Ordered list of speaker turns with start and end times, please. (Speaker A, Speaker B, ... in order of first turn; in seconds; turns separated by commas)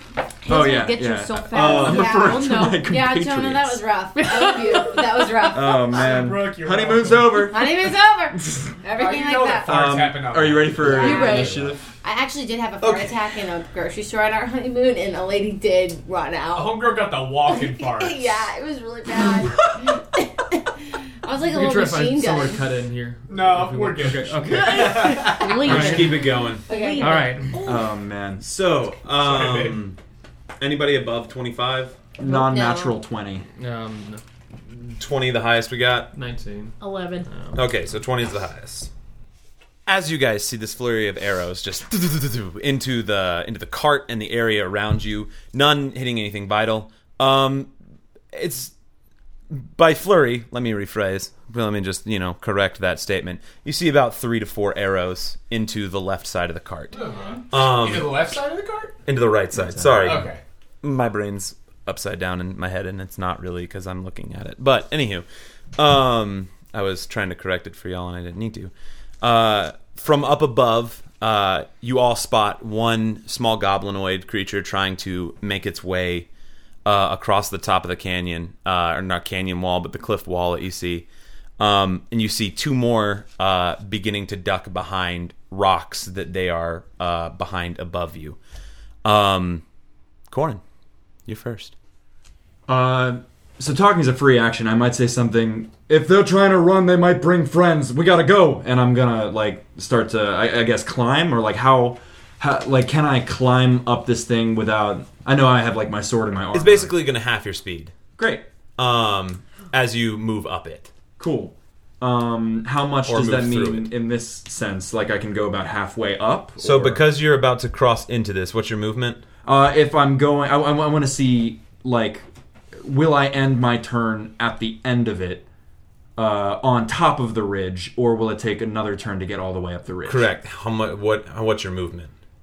Speaker A: 0.5-2.9, Speaker B: 0.5-3.9, Speaker C: 1.5-2.1, Speaker D: 1.6-6.2, Speaker A: 4.2-5.3, Speaker B: 5.5-7.9, Speaker E: 5.8-7.4, Speaker D: 7.3-9.8, Speaker E: 8.9-11.8, Speaker B: 9.7-11.9, Speaker D: 10.8-22.7, Speaker A: 10.9-11.5, Speaker C: 12.8-13.2, Speaker E: 16.5-18.2, Speaker F: 21.4-26.2, Speaker E: 23.3-25.8, Speaker B: 24.0-26.0, Speaker A: 24.5-27.6, Speaker C: 25.6-26.7, Speaker D: 26.6-27.7, Speaker F: 27.0-27.6, Speaker B: 27.6-28.5, Speaker C: 28.4-30.0, Speaker E: 29.1-29.9, Speaker C: 30.6-32.1, Speaker B: 32.2-33.5, Speaker D: 32.2-33.0, Speaker F: 33.6-34.2, Speaker C: 34.7-36.1, Speaker F: 36.1-36.8, Speaker A: 36.8-37.3, Speaker C: 37.5-38.9, Speaker C: 39.9-47.7, Speaker C: 48.3-48.7, Speaker C: 49.5-57.0, Speaker E: 56.9-59.0, Speaker C: 57.5-58.2, Speaker C: 59.1-60.3, Speaker B: 59.5-60.2, Speaker E: 60.0-60.4, Speaker C: 60.8-65.2, Speaker C: 65.8-76.3, Speaker C: 76.8-81.1, Speaker C: 81.6-88.4, Speaker C: 89.0-89.6, Speaker C: 90.3-90.6, Speaker C: 91.3-91.7, Speaker B: 92.7-107.0, Speaker C: 106.5-107.9, Speaker B: 108.2-108.5, Speaker C: 108.8-110.9, Speaker B: 111.2-117.1, Speaker C: 113.1-113.9, Speaker C: 116.6-119.3, Speaker B: 119.4-125.5, Speaker B: 126.2-130.3, Speaker C: 130.1-132.1